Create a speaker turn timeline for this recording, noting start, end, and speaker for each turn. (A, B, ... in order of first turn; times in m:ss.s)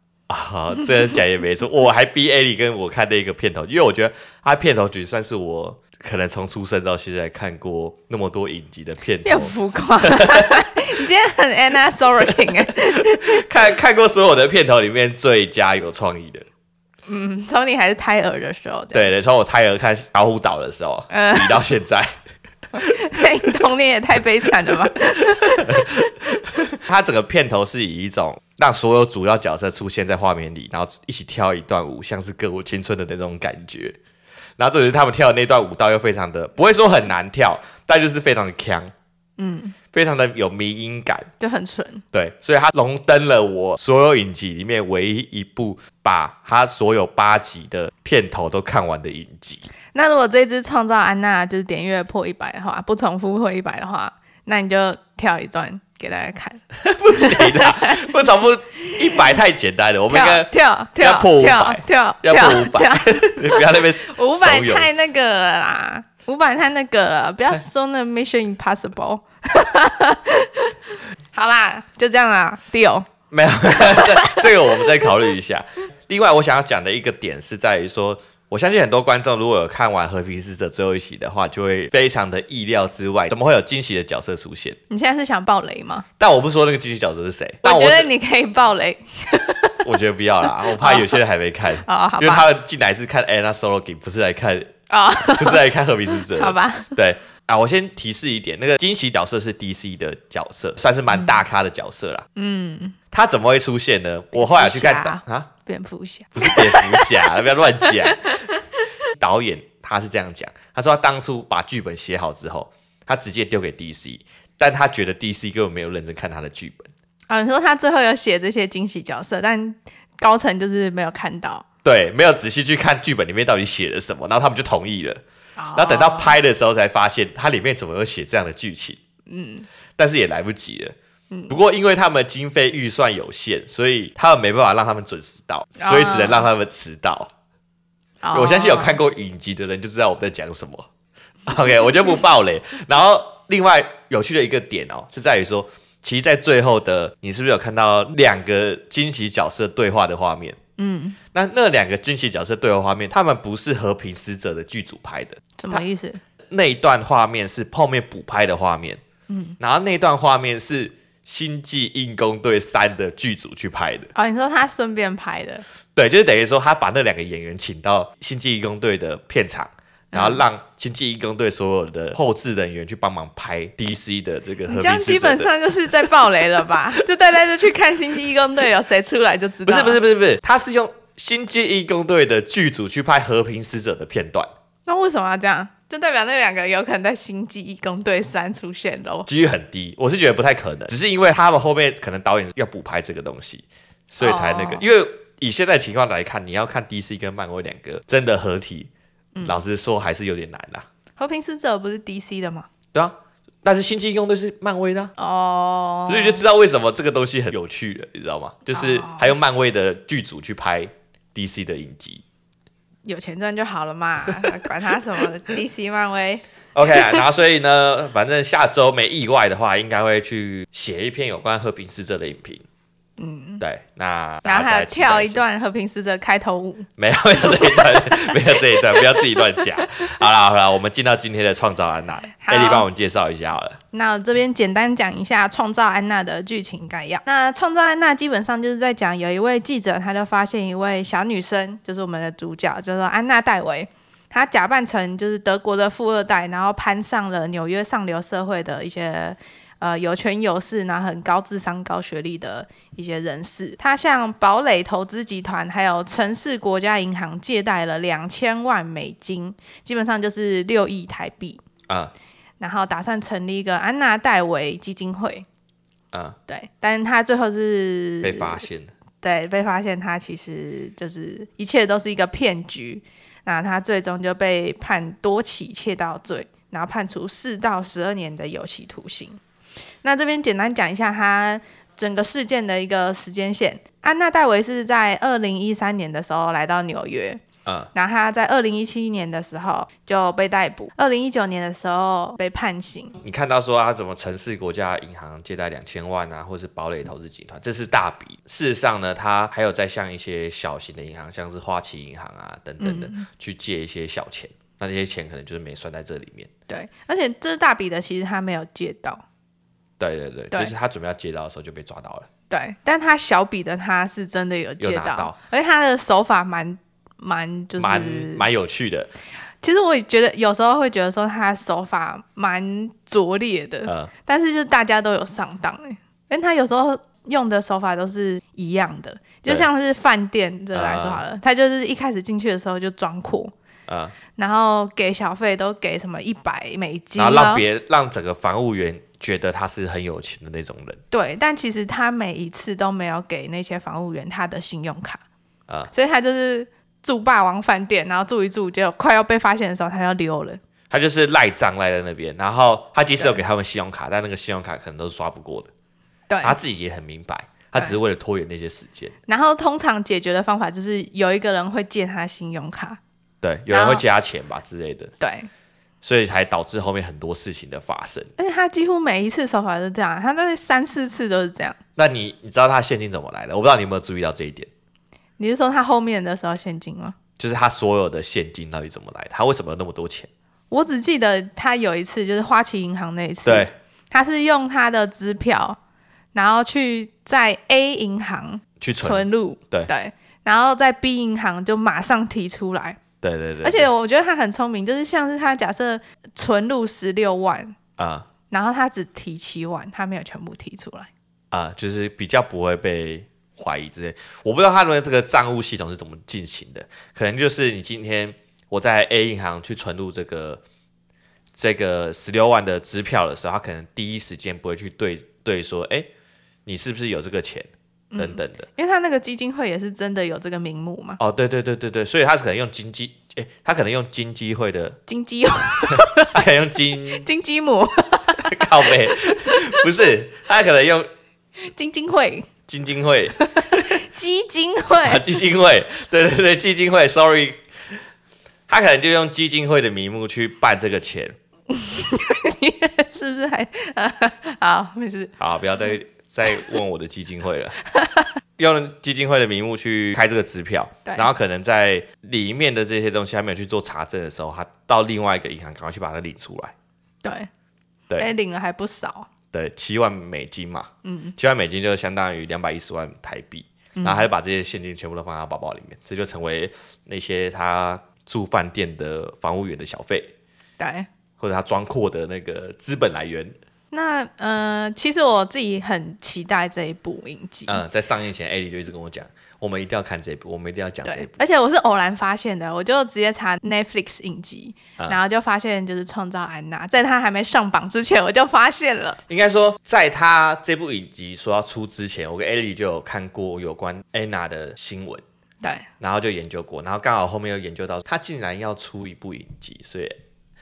0:00.3-0:10.5 A
0:09.2-0:13.4 B
0:12.3-0:16.5 A
0:17.1-0:19.1 B
0:18.9-0:22.2 A
0:21.1-0:21.6 B
0:22.7-0:26.0 B
0:24.7-0:24.9 A
0:25.6-0:34.0 A
0:34.6-0:38.9 A
0:39.4-0:39.8 B
0:39.9-0:41.3 A
0:41.4-0:42.0 B
0:42.1-0:49.7 A
0:49.9-0:58.1 B
0:56.8-1:04.9 A
0:58.9-0:59.2 B
1:00.1-1:10.8 B
1:11.3-1:13.1 B
1:13.3-1:24.8 A
1:13.8-1:14.4 B
1:24.9-1:26.1 B
1:26.2-1:28.1 A
1:27.6-1:29.8 B
1:29.8-1:42.3 A
1:30.8-1:31.2 B
1:31.8-1:32.5 B
1:34.9-1:36.9 B
1:42.4-1:43.0 B
1:43.1-1:45.5 A
1:44.3-1:48.6 B
1:46.4-1:48.5 A
1:49.2-1:56.9 A
1:57.3-2:01.6 B
2:01.8-2:05.2 A
2:05.6-2:06.4 B
2:05.8-2:09.0 A
2:09.3-2:09.7 B
2:10.0-2:11.0 A
2:11.5-2:17.3 A
2:15.8-2:16.5 B
2:18.2-2:19.0 B
2:18.3-2:20.9 A
2:21.5-2:30.6 A
2:30.8-2:31.2 B
2:31.3-2:35.8 A
2:35.6-2:36.2 B
2:36.5-2:39.0 A
2:39.3-2:39.6 B
2:39.6-2:44.1 A
2:44.2-2:45.6 B
2:46.0-2:55.5 A
2:50.1-2:50.4 B
2:54.7-3:00.0 B
2:59.7-3:04.5 A
3:04.9-3:09.3 B
3:09.3-3:18.9 A
3:14.2-3:14.9 B
3:19.4-3:19.6 B
3:19.4-3:20.9 A
3:21.2-3:22.7 B
3:22.9-3:25.1 A
3:25.2-3:26.4 B
3:26.1-3:32.2 A
3:28.7-3:29.3 B
3:33.0-3:37.2 B
3:34.3-3:34.7 A
3:36.8-3:42.6 A
3:43.2-3:43.6 B
3:43.6-3:45.4 A
3:44.4-3:46.9 B
3:47.0-3:53.8 A
3:47.4-3:49.6 B
3:52.4-3:52.9 B
3:53.9-4:21.6 B
4:21.9-4:22.1 A
4:22.6-4:25.5 B
4:26.1-4:26.4 A
4:26.5-4:28.6 B
4:28.2-4:28.9 A
4:29.2-4:39.4 B
4:40.0-4:47.4 B
4:47.6-4:47.9 A
4:47.9-4:53.2 B
4:53.2-5:06.5 A
5:02.8-5:03.3 B
5:06.7-5:09.2 B
5:10.0-5:12.3 A
5:12.5-5:18.4 B
5:14.8-5:15.4 A
5:17.8-5:19.1 A
5:19.6-5:33.5 B
5:23.9-5:24.1 A
5:30.7-5:31.2 A
5:33.9-5:34.2 A
5:34.4-5:37.6 B
5:37.2-5:41.0 A
5:41.1-5:45.2 B
5:45.9-5:50.6 B
5:50.9-5:55.7 A
5:56.3-5:56.6 B
5:56.4-5:59.1 A
5:59.3-6:03.0 B
6:03.4-6:05.1 A
6:03.7-6:04.0 B
6:05.2-6:05.5 B
6:06.0-6:08.3 A
6:08.4-6:11.8 B
6:12.0-6:14.7 A
6:15.4-6:17.2 B
6:17.4-6:20.3 A
6:20.7-6:25.8 B
6:23.4-6:23.7 A
6:26.3-6:33.0 B
6:28.8-6:29.9 A
6:33.2-6:33.9 A
6:33.6-6:37.8 B
6:38.0-6:38.3 A
6:38.5-6:41.1 B
6:41.5-6:50.6 A
6:51.6-6:56.1 A
6:56.7-6:58.7 A
6:58.1-7:01.2 B
7:01.2-7:05.0 A
7:05.1-7:06.4 B
7:05.9-7:07.3 A
7:07.1-7:09.9 B
7:08.4-7:11.1 A
7:11.6-7:12.5 B
7:12.7-7:14.0 A
7:13.4-7:15.2 B
7:15.0-7:17.6 A
7:18.7-7:21.4 A
7:21.7-7:25.3 B
7:25.4-7:27.8 A
7:28.0-7:28.3 B
7:28.6-7:36.7 A
7:31.0-7:31.3 B
7:37.2-7:37.5 B
7:38.2-7:39.3 B
7:39.5-7:50.3 A
7:41.0-7:41.4 B
7:44.0-7:44.3 B
7:50.8-7:51.1 B
7:51.4-7:53.5 A
7:53.9-7:57.8 B
7:57.7-8:01.4 A
8:01.0-8:09.2 B
8:09.3-8:15.2 A
8:15.6-8:15.9 B
8:16.0-8:20.2 A